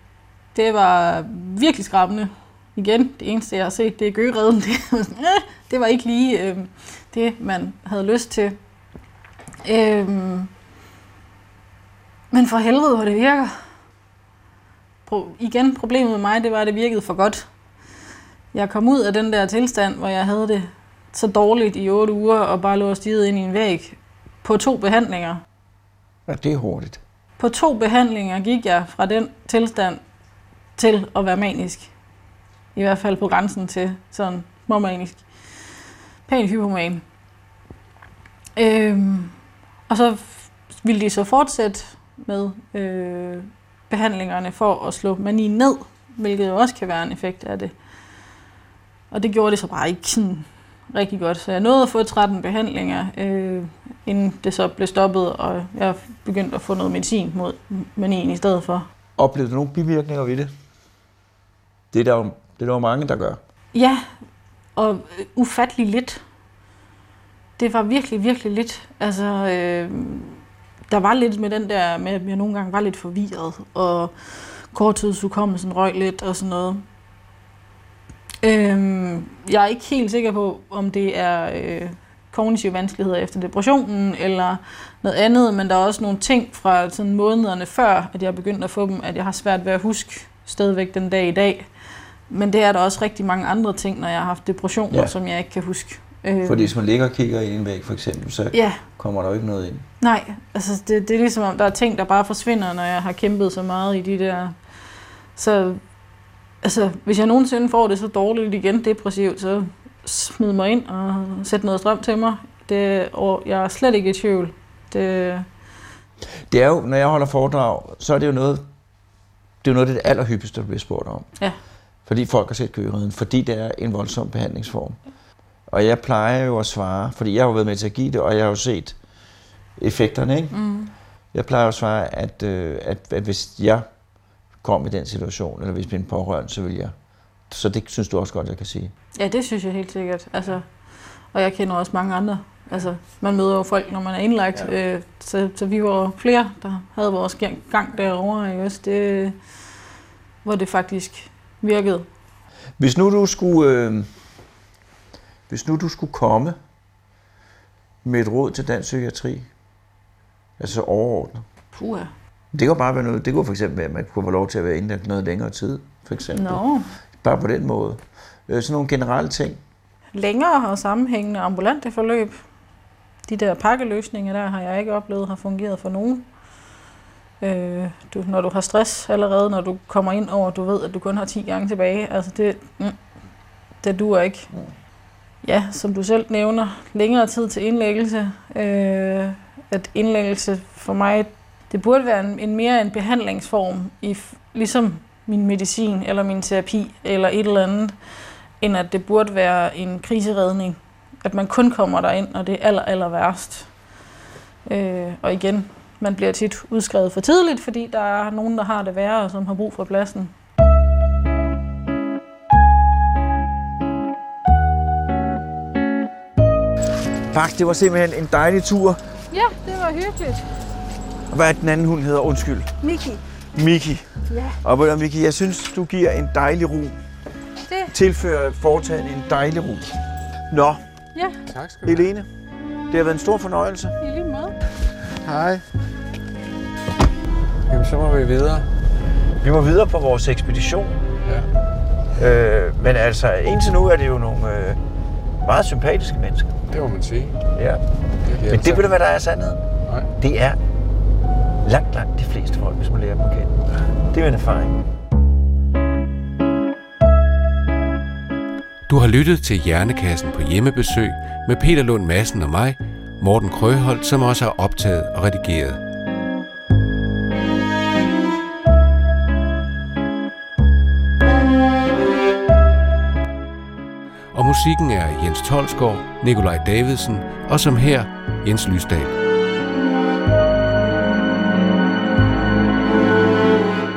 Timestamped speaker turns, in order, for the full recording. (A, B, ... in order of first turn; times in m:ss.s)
0:00.5-0:08.6 A
0:09.6-0:10.5 A
0:12.3-0:13.6 A
0:15.1-0:17.4 A
0:18.5-0:25.4 A
0:26.3-0:27.0 B
0:27.4-0:30.0 A
0:30.8-0:31.9 A
0:32.8-0:35.2 A
0:36.3-0:37.0 A
0:38.6-0:39.4 A
0:39.9-0:47.7 A
0:49.1-0:58.9 A
0:59.2-1:00.5 B
1:01.9-1:03.4 B
1:03.7-1:04.1 A
1:04.8-1:06.2 A
1:07.6-1:16.8 A
1:18.4-1:31.7 A
1:32.3-1:36.7 A
1:36.4-1:39.8 B
1:38.5-1:38.8 A
1:40.0-1:44.6 A
1:45.4-1:45.8 A
1:46.6-1:55.5 A
1:56.5-1:58.7 B
1:59.6-2:01.3 B
2:02.1-2:05.0 B
2:05.7-2:09.0 B
2:09.8-2:10.6 B
2:10.5-2:10.9 A
2:11.3-2:13.9 B
2:14.6-2:16.9 B
2:17.5-2:18.9 B
2:19.2-2:20.7 A
2:21.3-2:29.4 A
2:30.4-2:32.1 A
2:32.8-2:34.1 B
2:35.5-2:36.6 B
2:38.0-2:39.5 B
2:40.6-2:41.4 B
2:41.7-2:42.1 A
2:42.5-2:46.6 B
2:46.3-2:46.9 A
2:47.2-2:49.6 B
2:50.2-2:52.4 A
2:53.3-2:56.3 A
2:57.4-3:03.0 A
3:03.8-3:04.5 A
3:05.4-3:18.0 A
3:18.6-3:23.7 A
3:24.7-3:30.3 A
3:37.3-3:39.0 B
3:39.3-3:40.6 A
3:41.3-3:42.8 B
3:42.8-3:43.2 A
3:43.6-3:47.0 B
3:44.3-3:44.6 A
3:47.7-3:48.0 A
3:47.9-3:50.0 B
3:50.5-3:50.8 B
3:51.5-3:52.1 C
3:51.8-3:52.3 B
3:52.9-3:54.0 B
3:54.0-3:54.6 A
3:55.1-3:55.7 C
3:57.7-3:58.7 C
3:59.4-4:01.0 B
4:02.2-4:04.8 B
4:05.4-4:06.6 B
4:06.7-4:07.4 C
4:07.5-4:07.8 B
4:08.2-4:08.8 C
4:08.4-4:09.6 B
4:10.2-4:10.6 B
4:11.6-4:14.9 B
4:18.9-4:25.8 D
4:34.3-4:39.2 D